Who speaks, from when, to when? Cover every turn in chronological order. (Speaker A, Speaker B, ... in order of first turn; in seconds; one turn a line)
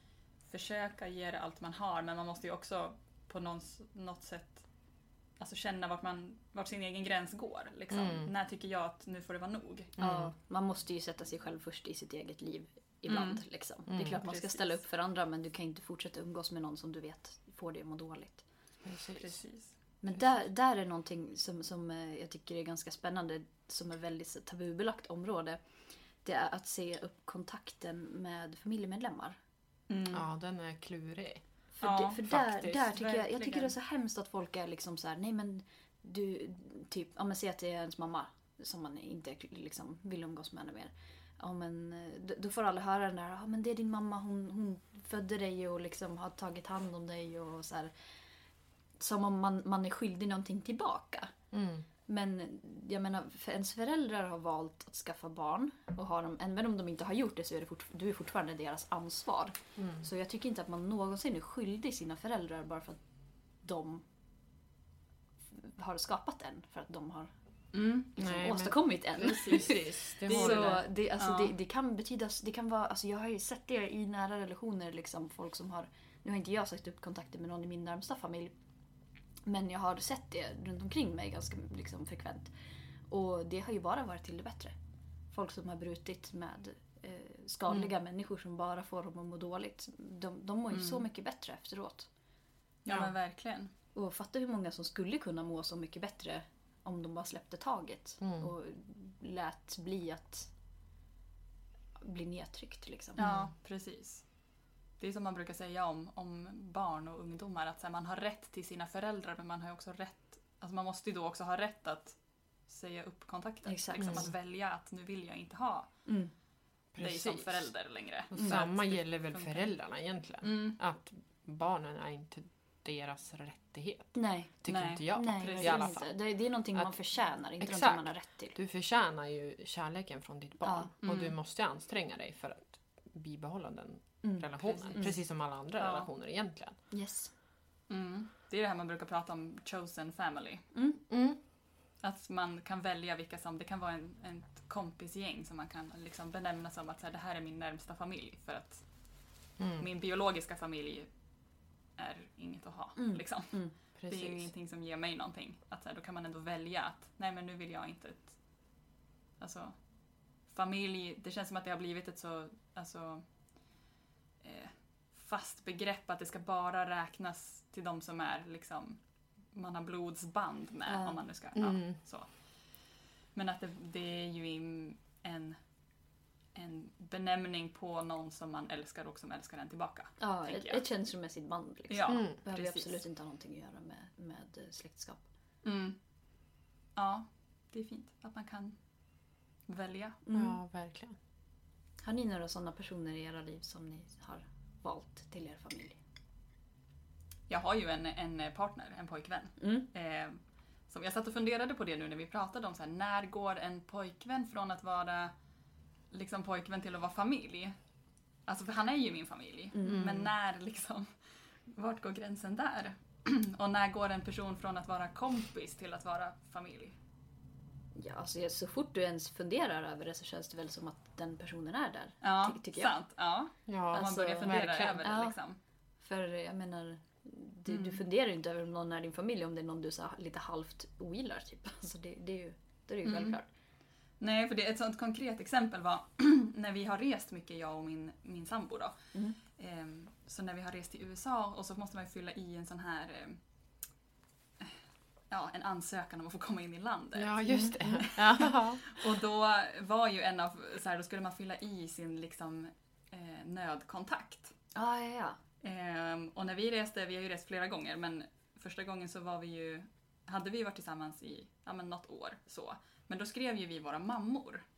Speaker A: 0.5-4.7
Speaker A: 5.4-9.9
Speaker B: 7.9-8.3
Speaker B: 10.0-10.3
Speaker C: 10.0-18.4
Speaker A: 13.1-13.4
Speaker B: 13.9-14.2
Speaker A: 14.1-14.8
Speaker B: 18.8-19.4
Speaker A: 19.2-19.8
Speaker C: 20.0-25.6
Speaker C: 26.2-29.4
Speaker A: 29.9-30.2
Speaker B: 30.1-31.4
Speaker C: 31.8-47.9
Speaker A: 31.8-32.3
Speaker B: 32.3-32.8
Speaker A: 32.8-33.7
Speaker C: 49.0-51.3
Speaker B: 51.5-51.9
Speaker C: 52.1-63.0
Speaker B: 59.8-60.1
Speaker C: 63.6-64.0
Speaker C: 65.5-67.3
Speaker A: 67.7-68.1
Speaker C: 68.1-78.5
Speaker B: 68.2-70.8
Speaker A: 69.2-69.7
Speaker A: 70.2-71.5
Speaker C: 79.4-82.5
Speaker C: 83.1-84.7
Speaker C: 85.3-92.1
Speaker A: 90.7-91.0
Speaker A: 92.8-93.7
Speaker C: 93.9-100.5
Speaker B: 98.2-98.5
Speaker C: 102.0-103.3
Speaker A: 103.2-104.2
Speaker B: 103.2-103.5
Speaker A: 105.0-115.9
Speaker C: 113.7-114.3
Speaker B: 114.0-114.3
Speaker C: 116.0-116.3
Speaker B: 116.9-117.7
Speaker A: 117.0-119.7
Speaker B: 118.3-126.1
Speaker C: 118.3-118.6
Speaker A: 120.4-120.8
Speaker C: 124.1-128.6
Speaker A: 124.7-126.0
Speaker B: 127.6-136.8
Speaker C: 130.6-130.9
Speaker A: 131.0-131.3
Speaker C: 134.2-135.1
Speaker A: 134.6-135.1
Speaker A: 135.8-136.1
Speaker C: 136.9-137.3
Speaker A: 137.9-140.6
Speaker C: 140.7-141.0
Speaker B: 141.1-141.4
Speaker A: 142.0-148.8
Speaker B: 149.6-149.9
Speaker A: 149.8-151.1
Speaker A: 152.0-158.3
Speaker C: 152.9-153.7
Speaker B: 153.9-154.5
Speaker A: 159.4-159.8
Speaker A: 160.5-163.2
Speaker A: 164.4-169.0
Speaker A: 169.5-172.3
Speaker C: 170.9-171.2
Speaker B: 171.6-171.9
Speaker A: 173.3-175.6
Speaker A: 176.5-180.8
Speaker C: 180.2-185.2
Speaker A: 181.9-183.0
Speaker B: 182.1-182.3
Speaker A: 185.6-186.0
Speaker A: 186.9-188.8
Speaker A: 189.7-190.2
Speaker C: 190.2-190.6
Speaker B: 190.3-191.2
Speaker C: 192.0-196.0
Speaker A: 197.5-205.3
Speaker C: 199.6-199.9
Speaker A: 206.1-207.7
Speaker A: 208.5-211.1
Speaker C: 209.7-210.1
Speaker B: 209.8-210.3
Speaker A: 211.7-216.9
Speaker C: 217.9-222.9
Speaker A: 222.2-225.6
Speaker B: 223.7-225.0
Speaker C: 223.9-225.3
Speaker C: 226.0-233.4
Speaker A: 227.7-228.0
Speaker A: 233.0-233.4
Speaker A: 234.2-238.9
Speaker A: 239.5-243.4
Speaker A: 245.3-254.5
Speaker B: 247.2-249.0
Speaker C: 247.5-247.8
Speaker C: 254.7-255.4
Speaker A: 255.6-264.6